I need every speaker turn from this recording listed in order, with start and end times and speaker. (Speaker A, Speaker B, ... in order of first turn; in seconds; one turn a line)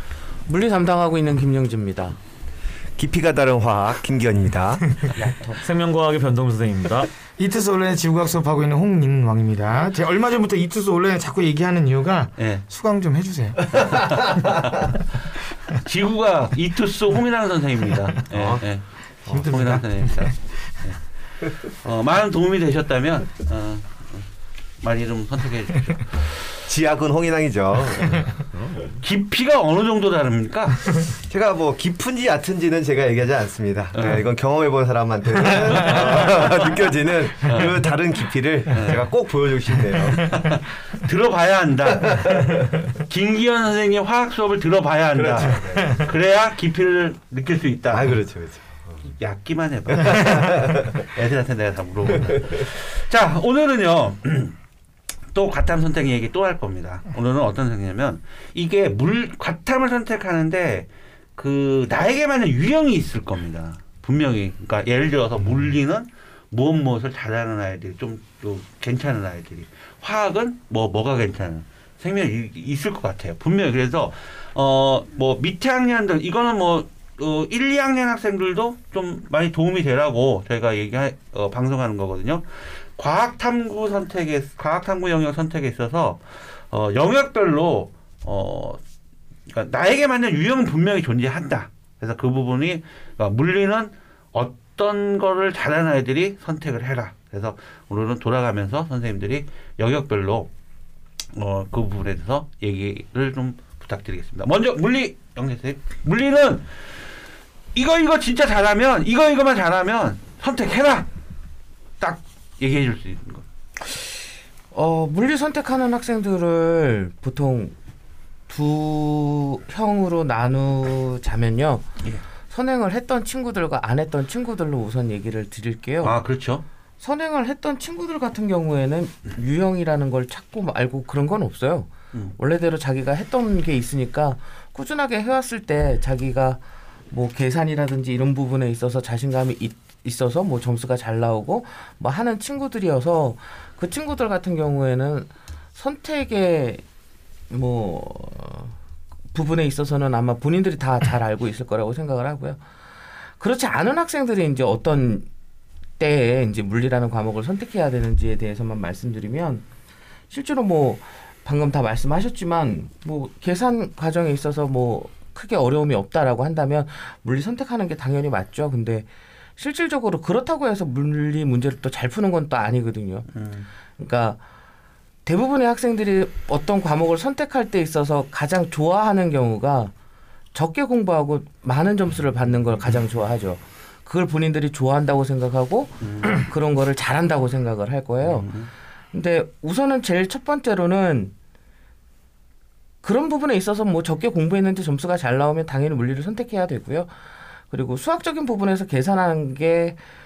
Speaker A: 0.5-2.2
Speaker B: 3.0-4.9
Speaker C: 5.3-7.1
Speaker D: 7.4-13.9
Speaker E: 12.4-12.6
Speaker E: 13.7-15.0
Speaker E: 15.7-18.8
Speaker B: 18.3-18.6
Speaker D: 19.3-20.3
Speaker E: 19.4-21.0
Speaker E: 21.8-24.3
Speaker E: 24.8-26.4
Speaker B: 26.7-28.2
Speaker C: 28.3-28.9
Speaker E: 29.0-30.9
Speaker B: 31.2-40.3
Speaker E: 33.9-34.3
Speaker E: 35.7-36.5
Speaker E: 37.4-37.8
Speaker E: 38.7-39.1
Speaker E: 40.0-48.2
Speaker B: 42.1-42.5
Speaker B: 45.1-46.1
Speaker B: 47.9-49.0
Speaker E: 49.1-54.5
Speaker B: 49.9-50.8
Speaker B: 52.2-52.5
Speaker E: 55.3-88.8
Speaker E: 89.5-100.5
Speaker E: 101.3-106.7
Speaker E: 107.7-111.1
Speaker E: 112.0-113.5
Speaker A: 114.7-117.7
Speaker A: 118.5-121.9
Speaker A: 122.5-126.2
Speaker E: 126.0-126.6
Speaker A: 127.0-146.8
Speaker A: 147.5-148.8
Speaker A: 149.3-152.6
Speaker A: 153.4-155.3
Speaker A: 156.0-159.6
Speaker A: 160.3-173.3
Speaker E: 173.3-173.7
Speaker A: 174.0-174.4
Speaker A: 175.2-179.9
Speaker A: 180.5-188.5
Speaker E: 186.0-186.4
Speaker E: 188.2-188.7
Speaker A: 189.1-191.3
Speaker A: 193.0-197.1
Speaker A: 197.7-200.0